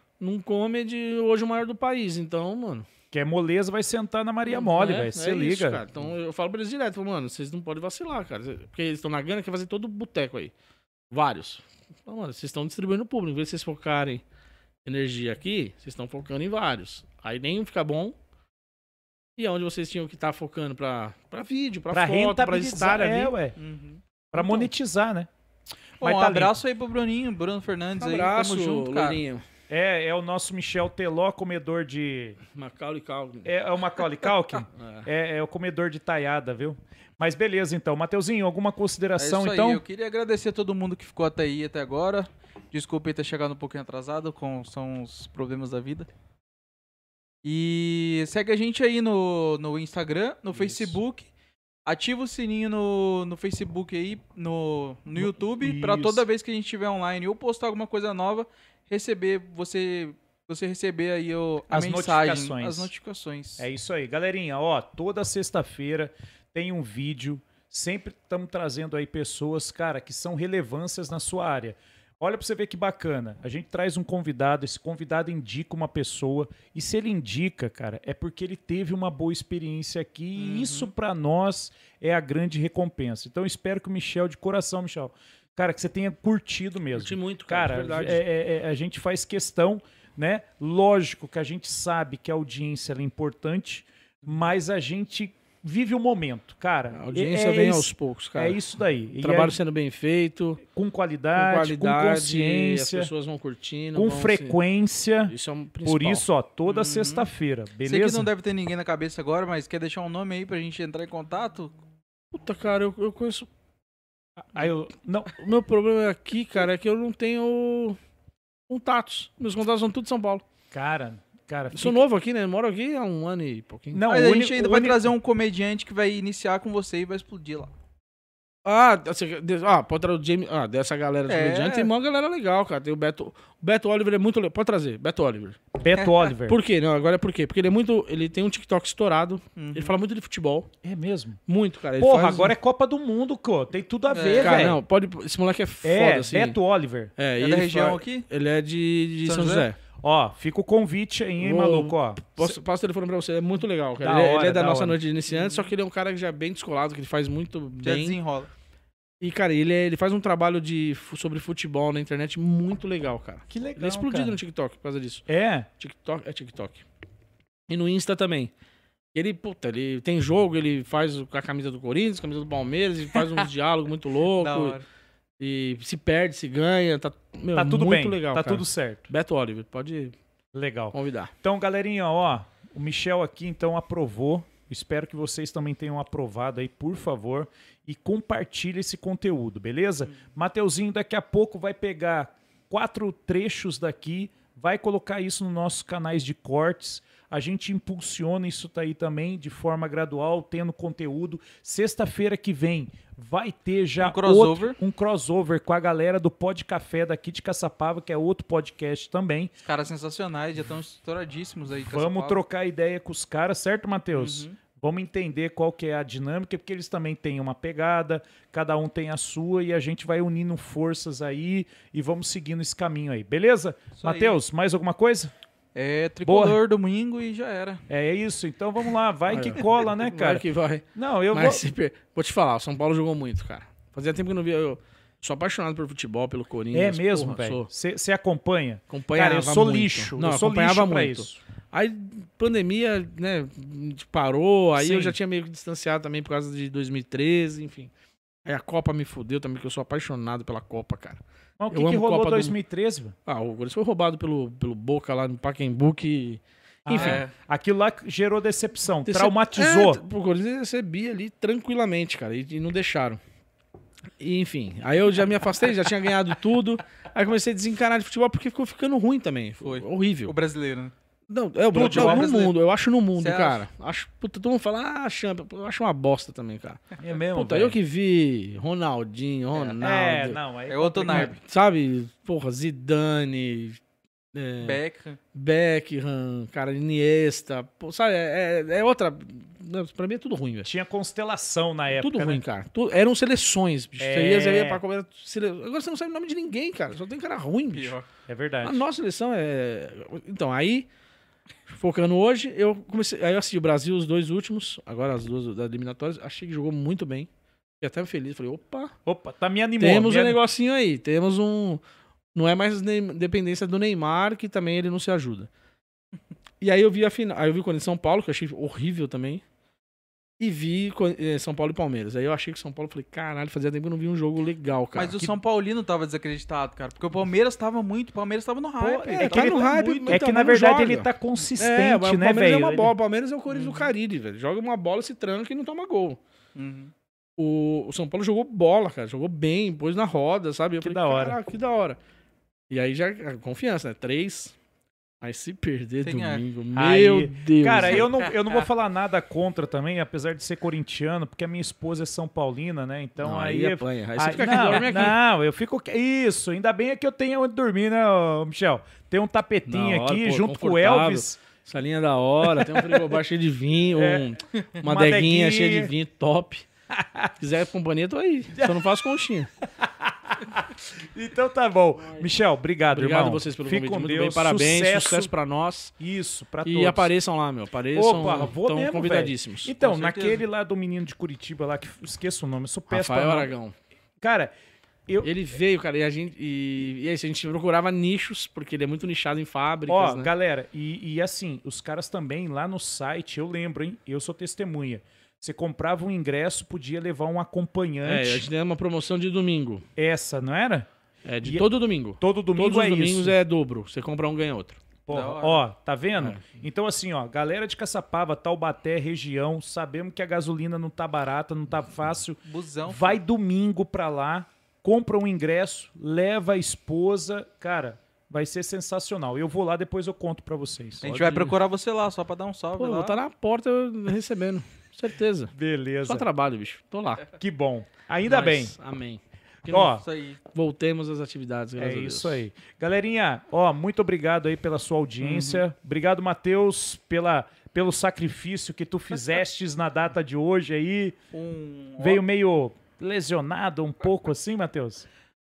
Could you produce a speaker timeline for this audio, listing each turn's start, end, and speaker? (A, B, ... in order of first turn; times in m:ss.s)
0:00.2-0:02.8 A
0:03.1-0:05.8 B
0:04.5-0:10.5 A
0:11.1-0:14.2 A
0:14.8-0:18.1 A
0:19.4-0:23.3 A
0:21.9-0:23.6 B
0:23.6-0:24.0 C
0:24.3-0:25.3 B
0:26.0-0:29.2 C
0:26.0-0:26.5 B
0:28.0-0:29.4 A
0:29.7-0:32.4 B
0:32.5-0:33.5 A
0:33.4-0:39.8 B
0:34.7-0:35.1 A
0:39.2-0:46.1 C
0:47.4-0:51.3 C
0:50.6-0:51.0 B
0:51.8-1:03.7 C
0:55.2-0:56.2 B
1:01.7-1:02.9 B
1:03.6-1:39.6 B
1:20.4-1:20.9 C
1:26.9-1:28.2 A
1:36.9-1:38.6 A
1:39.2-1:40.6 A
1:40.7-1:43.1 B
1:41.3-1:44.6 A
1:43.9-1:45.3 B
1:45.3-1:46.2 A
1:45.8-1:48.3 B
1:46.7-1:47.3 C
1:47.8-1:51.8 C
1:52.3-1:53.5 A
1:54.4-1:55.3 B
1:55.3-1:58.0 A
1:58.7-2:00.4 A
2:00.7-2:02.0 B
2:01.7-2:04.0 A
2:03.9-2:05.1 B
2:04.1-2:07.7 C
2:08.6-2:15.6 A
2:11.3-2:11.9 C
2:15.8-2:16.6 B
2:16.0-2:16.3 C
2:16.4-2:20.7 A
2:19.6-2:20.0 C
2:20.8-2:21.4 B
2:21.5-2:22.5 A
2:22.0-2:24.8 B
2:24.1-2:24.8 C
2:24.4-2:26.6 A
2:25.8-2:27.1 B
2:27.2-2:29.8 A
2:27.4-2:28.2 C
2:29.2-2:29.7 C
2:30.0-2:32.6 B
2:31.4-2:38.2 A
2:34.0-2:35.0 B
2:35.3-2:35.7 C
2:37.8-2:38.5 C
2:39.2-2:45.3 A
2:43.5-2:44.4 B
2:45.3-2:45.7 B
2:45.8-2:46.8 A
2:47.7-2:48.5 A
2:49.1-2:54.8 A
2:54.4-2:54.8 C
2:55.4-3:00.1 A
2:57.5-2:59.1 B
3:00.5-3:29.5 B
3:00.9-3:01.3 A
3:24.0-3:24.8 C
3:29.6-3:32.4 C
3:31.8-3:45.3 B
3:34.1-3:34.6 C
3:44.0-3:44.4 C
3:45.7-3:47.8 C
3:46.2-3:46.6 B
3:47.9-3:50.4 B
3:49.3-3:57.7 A
3:51.0-3:51.6 B
3:56.7-4:01.4 B
3:58.9-4:07.9 A
4:04.7-4:05.2 B
4:08.4-4:12.6 A
4:11.6-4:13.1 B
4:13.2-4:17.2 A
4:16.8-4:20.0 B
4:16.9-4:17.3 C
4:19.0-4:23.2 A
4:24.2-4:30.3 A
4:29.6-4:30.9 C
4:31.3-4:40.4 A
4:31.7-4:32.3 B
4:31.8-4:32.5 C
4:33.2-4:33.6 C
4:37.0-4:37.8 B
4:39.5-4:39.8 C
4:39.8-4:41.3 B
4:40.7-4:41.4 C
4:41.1-4:43.8 A
4:44.3-4:44.8 A
4:44.6-4:45.2 C
4:45.3-4:50.7 A
4:50.6-4:52.4 B
4:51.9-4:58.0 A
4:54.0-4:54.8 B
4:57.7-4:58.0 C
4:58.3-4:58.8 B
4:58.6-5:00.8 A
5:01.7-5:07.3 A
5:07.8-5:08.9 A
5:09.0-5:10.4 B
5:09.8-5:11.8 A
5:12.3-5:15.5 A
5:16.6-5:19.4 A
5:20.4-5:25.2 A
5:24.9-5:30.2 C
5:28.8-5:32.9 B
5:29.1-5:36.2 A
5:33.5-5:33.9 C
5:36.5-5:36.9 C
5:37.4-5:42.0 A
5:40.8-5:41.4 B
5:42.7-5:44.5 A
5:45.2-5:48.1 A
5:46.0-5:46.4 C
5:46.7-6:01.4 B
5:53.2-5:55.2 A
5:59.7-6:06.6 A
6:02.4-6:03.2 B
6:03.9-6:04.3 B
6:04.8-6:05.9 B
6:06.9-6:07.3 B
6:07.4-6:09.5 A
6:08.5-6:08.8 B
6:09.8-6:15.3 B
6:12.9-6:15.9 A
6:16.0-6:17.1 B
6:16.6-6:19.8 A
6:17.9-6:23.5 B
6:19.8-6:20.4 C
6:22.9-6:23.7 A
6:24.2-6:24.5 B
6:25.1-6:25.3 B
6:25.2-6:30.3 A
6:29.9-6:38.4 B
6:38.0-6:39.8 A
6:40.0-6:40.9 B
6:41.2-6:44.8 A
6:42.2-6:43.4 B
6:45.0-7:01.4 B
6:45.1-6:45.6 C
6:52.4-6:53.2 C
7:01.0-7:03.2 C
7:01.0-7:01.5 A
7:02.8-7:05.5 A
7:05.5-7:06.3 B
7:06.0-7:07.3 A
7:07.4-7:08.7 B
7:08.2-7:09.9 A
7:09.6-7:10.0 B
7:09.8-7:10.4 C
7:10.5-7:12.4 A
7:11.8-7:21.2 B
7:15.2-7:15.6 C
7:21.3-7:22.2 C
7:22.0-7:25.1 B